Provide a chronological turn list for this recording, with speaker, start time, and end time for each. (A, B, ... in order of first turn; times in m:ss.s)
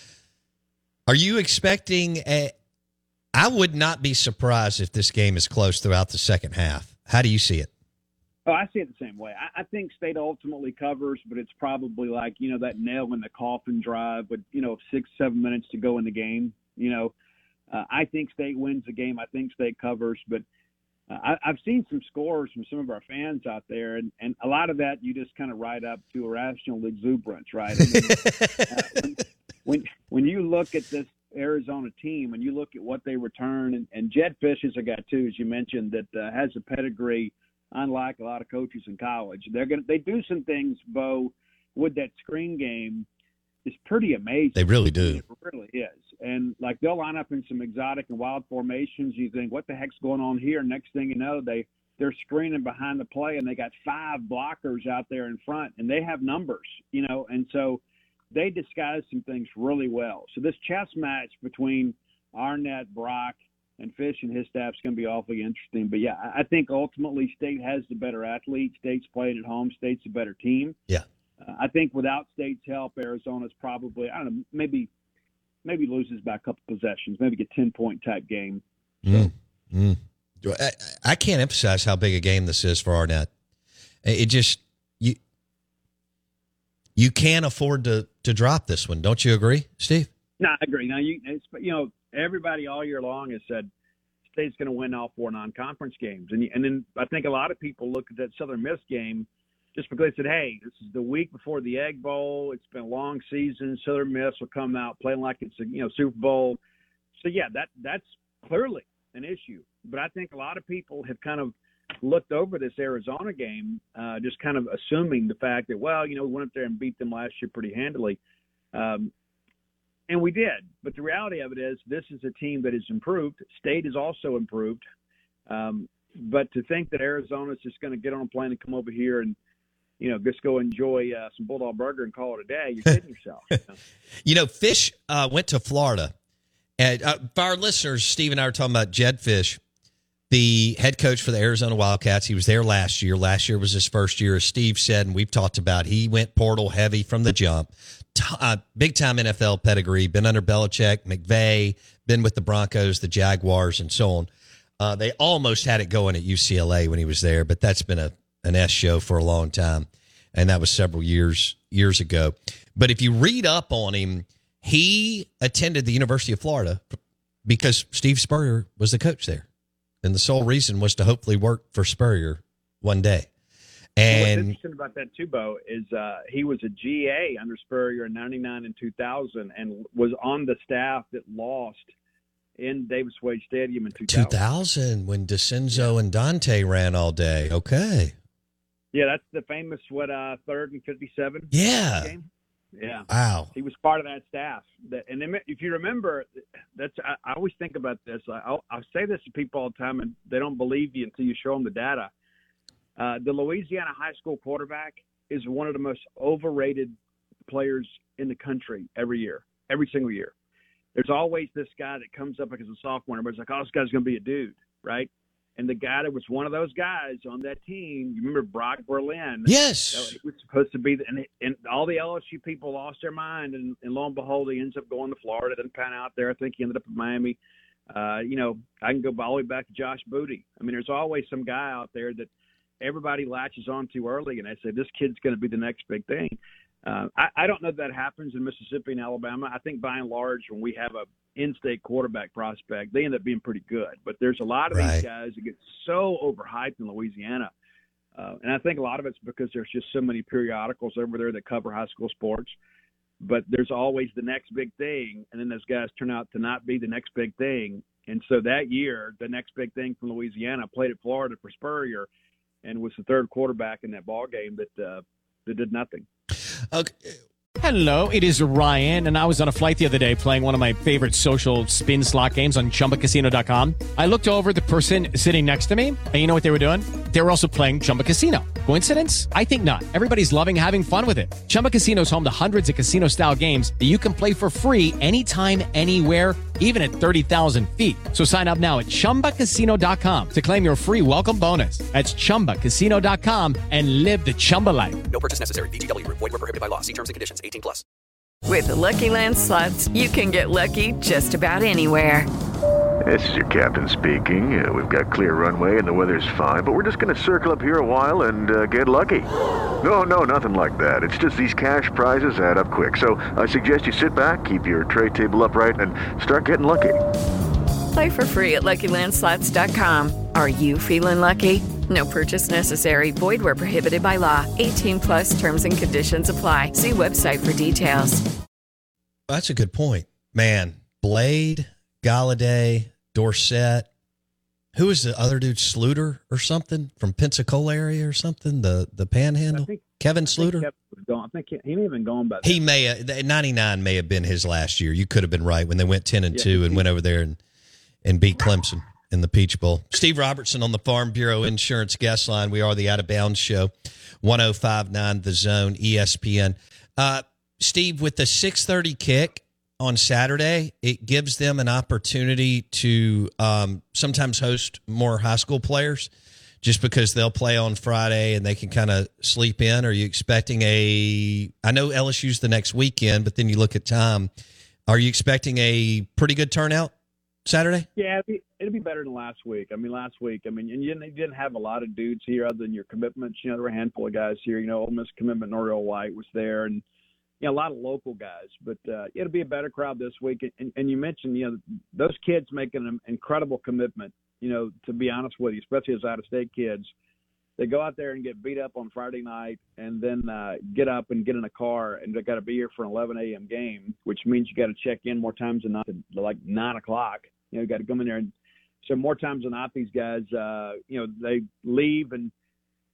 0:01.1-0:02.5 A
0:03.3-0:07.7 A
0:08.4-0:17.1 B
0:17.7-0:20.4 B
0:21.1-0:43.0 B
0:43.6-0:57.8 B
0:44.6-0:45.2 A
0:58.3-1:10.8 B
1:11.4-1:14.9 B
1:15.6-1:19.3 B
1:19.0-1:23.3 A
1:24.0-1:25.2 A
1:27.0-1:30.1 A
1:30.4-1:33.7 B
1:34.3-1:46.6 B
1:47.2-1:58.2 B
1:58.7-1:59.1 B
2:00.1-2:04.8 B
2:05.5-2:09.4 B
2:10.0-2:13.8 B
2:14.2-2:16.1 A
2:16.8-2:19.6 A
2:20.3-2:34.3 A
2:34.8-2:49.4 A
2:50.0-2:53.3 A
2:54.0-2:54.5 A
2:54.1-3:01.9 B
3:02.6-3:04.3 B
3:04.0-3:08.1 A
3:08.9-3:22.1 B
3:11.5-3:12.1 A
3:13.1-3:13.5 A
3:23.0-3:26.9 B
3:27.5-3:30.3 B
3:30.9-3:47.4 B
3:39.4-3:40.1 A
3:47.9-3:52.3 B
3:52.8-4:07.5 B
4:04.7-4:05.0 A
4:08.2-4:12.5 B
4:13.2-4:22.1 B
4:22.6-4:26.0 B
4:26.7-4:27.0 A
4:27.6-4:55.0 C
4:55.1-4:57.8 D
4:58.4-5:02.3 E
5:03.0-5:09.3 F
5:09.8-5:17.0 F
5:17.9-5:28.2 E
5:29.3-5:33.9 A
5:34.7-5:40.7 A
5:39.5-5:42.6 B
5:42.4-5:47.4 A
5:46.3-5:46.8 B
5:48.0-6:06.1 A
6:06.6-6:14.3 A
6:14.9-6:16.9 A
6:17.4-6:17.9 A
6:18.0-6:26.8 B
6:27.4-6:36.9 B
6:37.6-6:48.3 B
6:48.8-6:52.3 B